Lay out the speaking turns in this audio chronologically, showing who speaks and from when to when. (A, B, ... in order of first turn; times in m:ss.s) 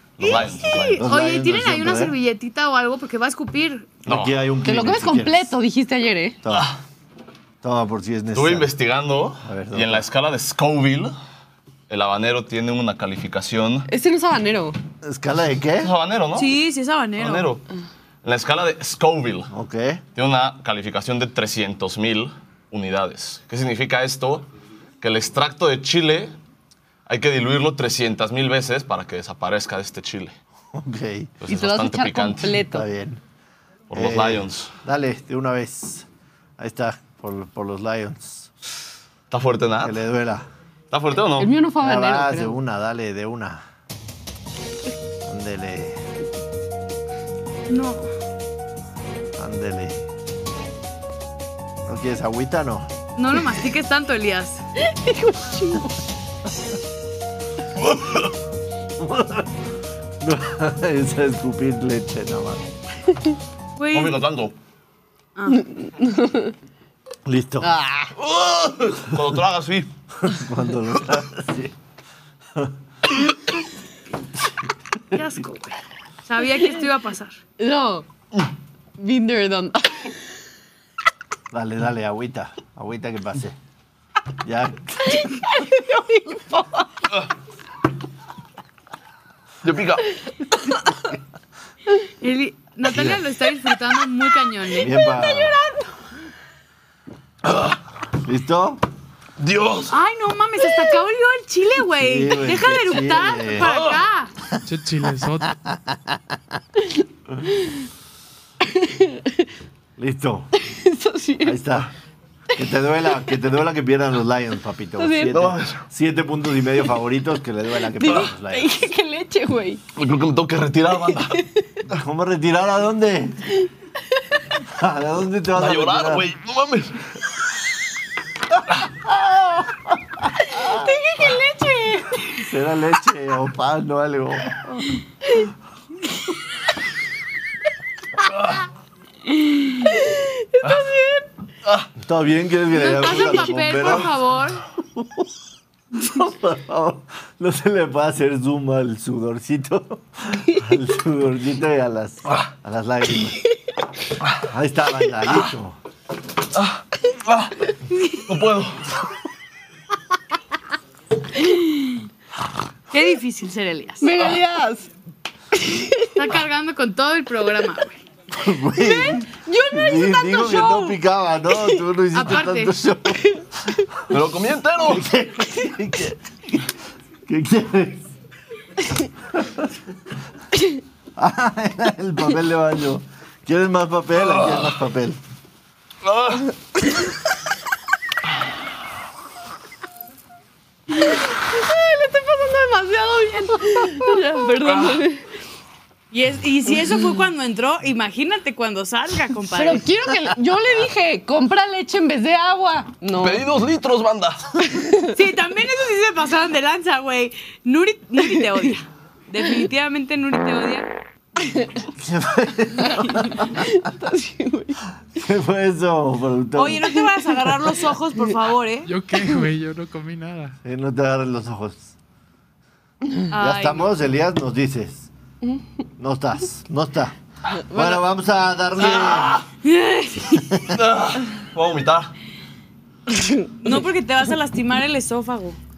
0:00.2-0:01.0 A
0:00.2-0:04.0 B
0:01.0-0:02.2 C
0:04.0-0:05.5 C
0:04.1-0:04.3 A
0:04.6-0:06.4 D
0:06.4-0:06.8 C
0:06.5-0:06.8 A
0:07.6-0:08.7 C
0:08.3-0:11.1 A
0:09.4-0:10.1 C
0:11.9-0:13.9 A
0:13.9-0:14.8 D
0:15.0-0:15.9 C
0:15.8-0:16.5 A
0:16.3-0:17.5 B
0:17.2-0:17.6 A
0:18.2-0:19.5 A
0:19.5-0:20.0 C
0:20.2-0:24.5 A
0:25.0-0:26.3 A
0:27.0-0:30.3 A
0:30.7-0:31.4 C
0:31.4-0:32.6 A
0:31.5-0:32.8 D
0:32.6-0:33.2 C
0:33.9-0:34.7 A
0:33.9-0:36.1 C
0:36.6-0:38.5 C
0:39.3-0:40.0 A
0:39.8-0:40.5 C
0:40.9-0:41.5 A
0:41.4-0:42.6 D
0:41.8-0:43.6 C
0:45.2-0:46.0 C
0:47.7-0:48.1 B
0:49.4-0:50.1 C
0:51.8-0:52.9 C
0:53.2-0:54.6 B
0:54.8-0:55.9 D
0:57.9-0:58.2 C
0:59.0-0:59.5 C
1:00.2-1:02.6 C
1:03.8-1:04.2 B
1:03.9-1:04.5 A
1:05.4-1:05.6 B
1:05.5-1:06.5 D
1:07.2-1:08.1 C
1:08.2-1:09.9 A
1:10.2-1:11.7 C
1:15.1-1:17.4 B
1:17.6-1:18.1 D
1:19.0-1:20.2 D
1:21.5-1:23.6 C
1:24.4-1:25.4 C
1:25.0-1:26.8 D
1:29.6-1:30.1 A
1:32.2-1:35.8 B
1:32.8-1:33.2 C
1:34.7-1:35.6 C
1:38.1-1:38.8 C
1:39.4-1:39.9 A
1:39.9-1:44.3 B
1:42.0-1:43.7 C
1:44.6-1:45.5 E
1:45.6-1:46.2 C
1:48.6-1:49.4 D
1:50.0-1:50.5 C
1:50.6-1:51.6 D
1:51.4-1:51.9 C
1:52.5-1:58.7 C
1:55.0-1:55.3 D
1:55.3-1:55.8 A
1:57.9-1:59.8 D
2:00.0-2:01.4 A
2:01.1-2:01.6 D
2:01.9-2:03.6 C
2:04.6-2:06.3 C
2:05.5-2:07.1 A
2:09.0-2:10.0 C
2:10.5-2:12.4 D
2:10.6-2:10.9 C
2:12.3-2:14.8 C
2:19.8-2:21.3 D
2:22.0-2:24.1 C
2:22.7-2:24.6 B
2:24.9-2:25.3 C
2:26.0-2:33.4 C
2:34.4-2:35.8 C
2:36.6-2:37.6 A
2:38.0-2:38.2 B
2:38.2-2:38.9 A
2:41.5-2:41.9 B
2:42.9-2:44.1 B
2:44.0-2:44.9 D
2:45.5-2:46.2 D
2:46.2-2:48.0 B
2:48.3-2:53.8 C
2:49.4-2:50.7 D
2:50.4-2:50.9 B
2:52.1-2:52.8 B
2:54.1-2:55.0 A
2:54.8-2:56.7 C
2:57.3-2:58.1 C
2:59.4-2:59.7 C
3:01.2-3:05.2 C
3:06.0-3:06.5 A
3:10.9-3:15.2 D
3:14.7-3:15.0 A
3:16.1-3:19.9 B
3:19.5-3:23.4 D
3:23.2-3:24.6 A
3:24.6-3:25.1 D
3:25.1-3:30.9 B
3:31.4-3:31.7 D
3:31.9-3:33.7 C
3:32.9-3:34.8 D
3:35.2-3:36.9 C
3:36.6-3:38.9 B
3:37.0-3:37.7 D
3:38.8-3:40.6 E
3:40.6-3:41.9 C
3:43.3-3:43.9 B
3:43.4-3:45.1 C
3:46.0-3:47.2 C
3:47.5-3:48.0 D
3:47.7-3:49.4 C
3:49.0-3:49.4 A
3:49.6-3:50.5 B
3:50.3-3:50.8 C
3:50.7-3:52.1 A
3:53.1-3:53.8 D
3:53.6-3:55.6 B